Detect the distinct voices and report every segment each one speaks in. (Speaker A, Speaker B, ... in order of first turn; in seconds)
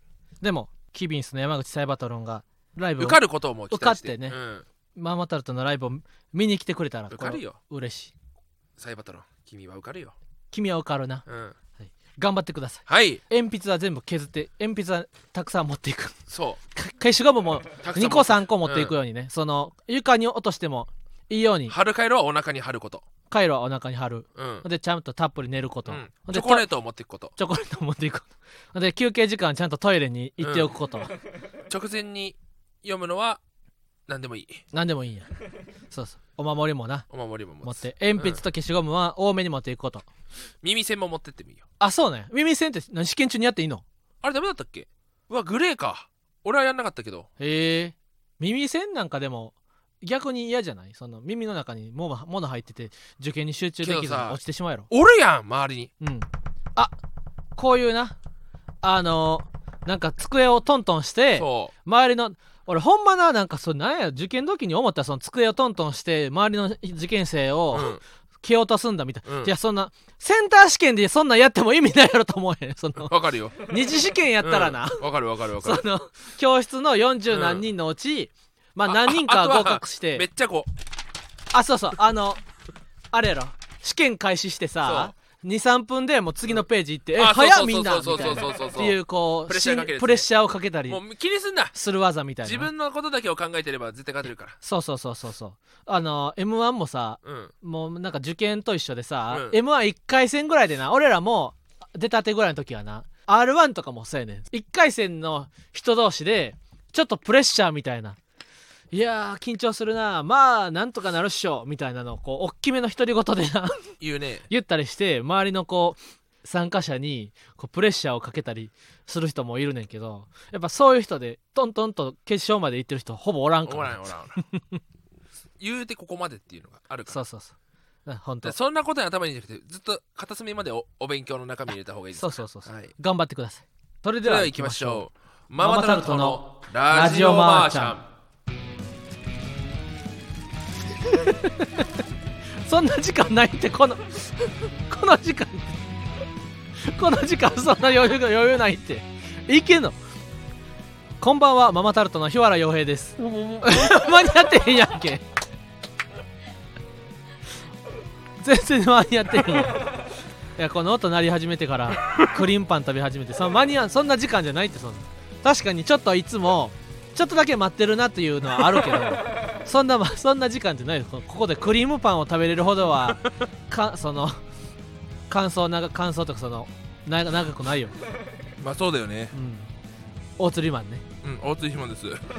Speaker A: 0.4-4.4, 5.0-8.1, 10.5-11.2, 11.8-16.2, 16.8-21.8, 23.3-26.7, 27.4-31.1, 34.7-35.3, 35.9-37.1, 37.6-40.1, 41.8-43.8, 47.4-54.9, 56.0-56.9, 57.6-58.2, 58.8-75.1, 75.6-80.3, 81.5-82.4, 83.1-91.0, 91.7-92.7, 94.6-108.2, 108.9-113.9, 114.5-124.8, 127.1-127.5, 128.1-128.6, 132.2-135.1, 135.6-137.9, 141.0-141.9, 142.7-145.8, 146.8-149.9, 151.2-155.2, 158.4-160.0, 160.6-174.4, 175.3-178.0, 179.3-179.7, 180.4-181.0
Speaker B: 3.0-4.7, 7.1-7.6, 8.8-10.1, 11.3-11.6, 12.9-13.2, 16.3-16.6, 17.8-18.9, 21.7-23.1, 24.4-24.7, 25.9-27.3, 30.4-30.7, 31.7-33.4, 34.1-34.6, 37.1-38.4, 40.6-41.6, 44.2-47.3, 53.8-55.9, 61.4-61.7, 67.7-68.0, 69.3-69.5, 73.0-73.6, 74.4-75.8, 77.3-77.7, 78.9-80.7, 84.8-85.1, 87.2-90.3, 90.9-91.8, 92.4-94.6, 97.2-97.5, 99.3-99.6, 114.0-114.5, 123.7-124.4, 125.6-127.2, 128.4-132.9, 134.2-138.0, 178.6-179.3, 181.2-182.2